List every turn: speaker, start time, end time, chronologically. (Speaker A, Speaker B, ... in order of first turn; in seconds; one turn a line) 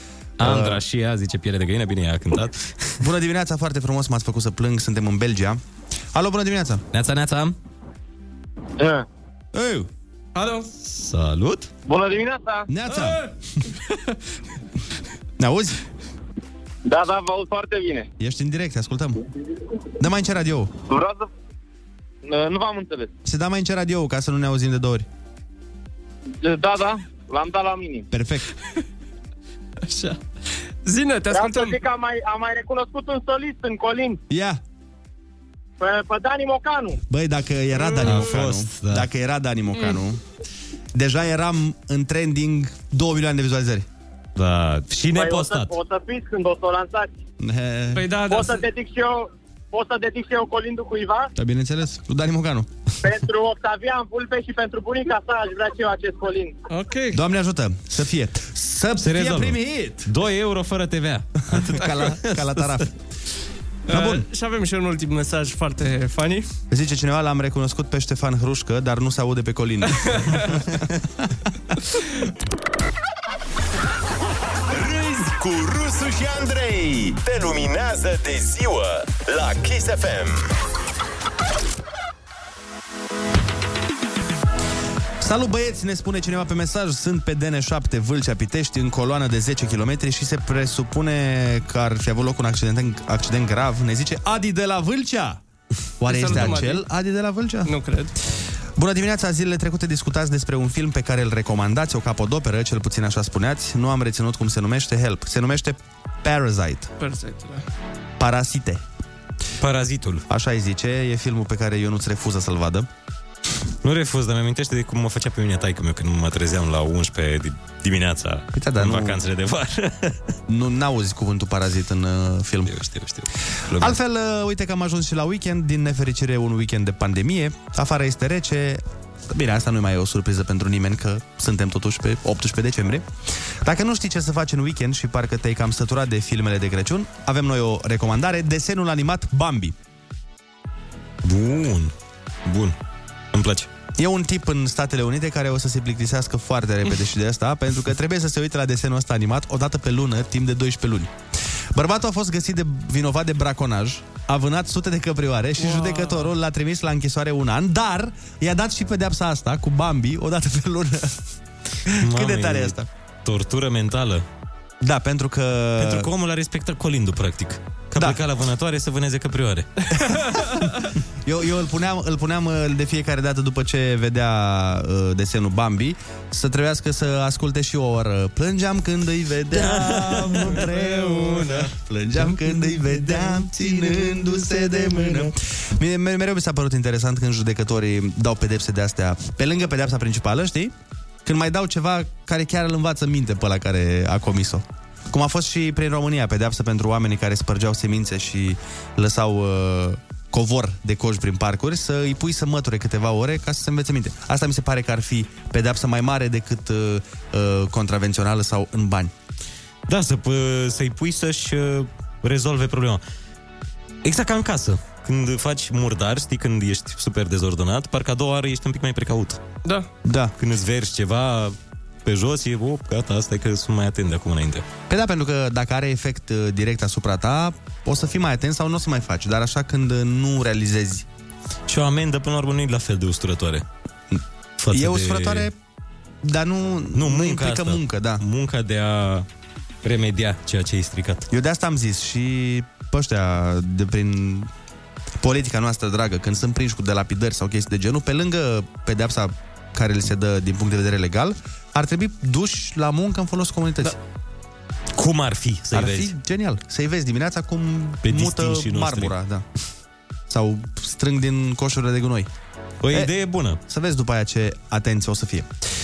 Speaker A: 0.4-3.0
Speaker B: 0.4-0.8
Speaker B: 3.0-5.6
Speaker B: 6.1-6.8
Speaker A: 6.9-7.5
Speaker C: 8.8-9.0
Speaker B: 9.5-9.9
Speaker D: 10.3-10.7
Speaker A: 10.8-11.7
Speaker C: 11.9-12.7
Speaker B: 12.7-13.3
Speaker D: 12.9-13.3
Speaker B: 15.4-15.8
Speaker C: 16.8-18.1
Speaker B: 18.2-19.2
Speaker B: 20.0-20.7
Speaker C: 20.9-21.3
Speaker C: 22.2-23.1
Speaker B: 23.2-25.1
Speaker C: 26.4-28.1
Speaker B: 28.1-28.5
Speaker D: 29.9-30.2
Speaker D: 30.8-31.8
Speaker C: 31.3-34.2
Speaker B: 34.3-34.6
Speaker C: 35.8-37.0
Speaker B: 37.1-40.2
Speaker D: 37.8-38.2
Speaker A: 38.0-39.1
Speaker B: 40.9-43.9
Speaker A: 44.4-45.7
Speaker C: 45.1-47.1
Speaker B: 47.4-48.0
Speaker D: 47.9-48.6
Speaker C: 48.3-51.3
Speaker B: 51.4-52.7
Speaker C: 53.0-56.5
Speaker D: 56.7-57.2
Speaker B: 57.1-60.1
Speaker A: 59.0-62.8
Speaker B: 61.5-62.9
Speaker D: 63.9-66.5
Speaker B: 63.9-64.2
Speaker B: 66.7-70.6
Speaker E: 74.7-80.5
Speaker B: 85.2-95.4
Speaker B: 96.0-97.7
Speaker D: 96.0-96.8
Speaker D: 97.6-98.1
Speaker B: 98.8-106.9
Speaker D: 107.0-107.6
Speaker B: 108.2-108.8
Speaker A: 109.6-110.2
Speaker B: 110.3-112.9
Speaker A: 113.8-120.2
Speaker B: 118.5-119.2
Speaker B: 120.5-122.7
Speaker A: 122.7-124.0
Speaker B: 123.7-139.7
Speaker A: 141.2-141.9
Speaker A: 142.4-142.8
Speaker A: 143.3-143.7
Speaker B: 143.9-151.1
Speaker B: 151.7-161.2
Speaker D: 155.6-156.3
Speaker B: 161.8-162.9
Speaker A: 162.0-164.2
Speaker B: 164.8-166.1
Speaker A: 165.8-169.7
Speaker B: 167.9-168.2
Speaker D: 170.0-170.6
Speaker B: 171.2-190.7
Speaker A: 179.5-181.6
Speaker B: 191.2-209.1
Speaker A: 209.9-213.0
Speaker A: 214.0-219.4
Speaker D: 219.6-219.9
Speaker B: 220.0-220.3
Speaker A: 220.4-224.6
Speaker B: 224.9-231.0
Speaker A: 231.7-233.6
Speaker A: 234.6-235.5
Speaker B: 234.7-235.5
Speaker B: 236.2-238.2
Speaker A: 236.9-239.2
Speaker A: 239.8-241.2
Speaker B: 241.3-244.5
Speaker B: 245.2-253.9
Speaker A: 254.9-256.1
Speaker B: 255.7-259.4
Speaker A: 258.0-259.1
Speaker B: 260.3-262.3
Speaker A: 262.8-263.6
Speaker B: 263.6-265.5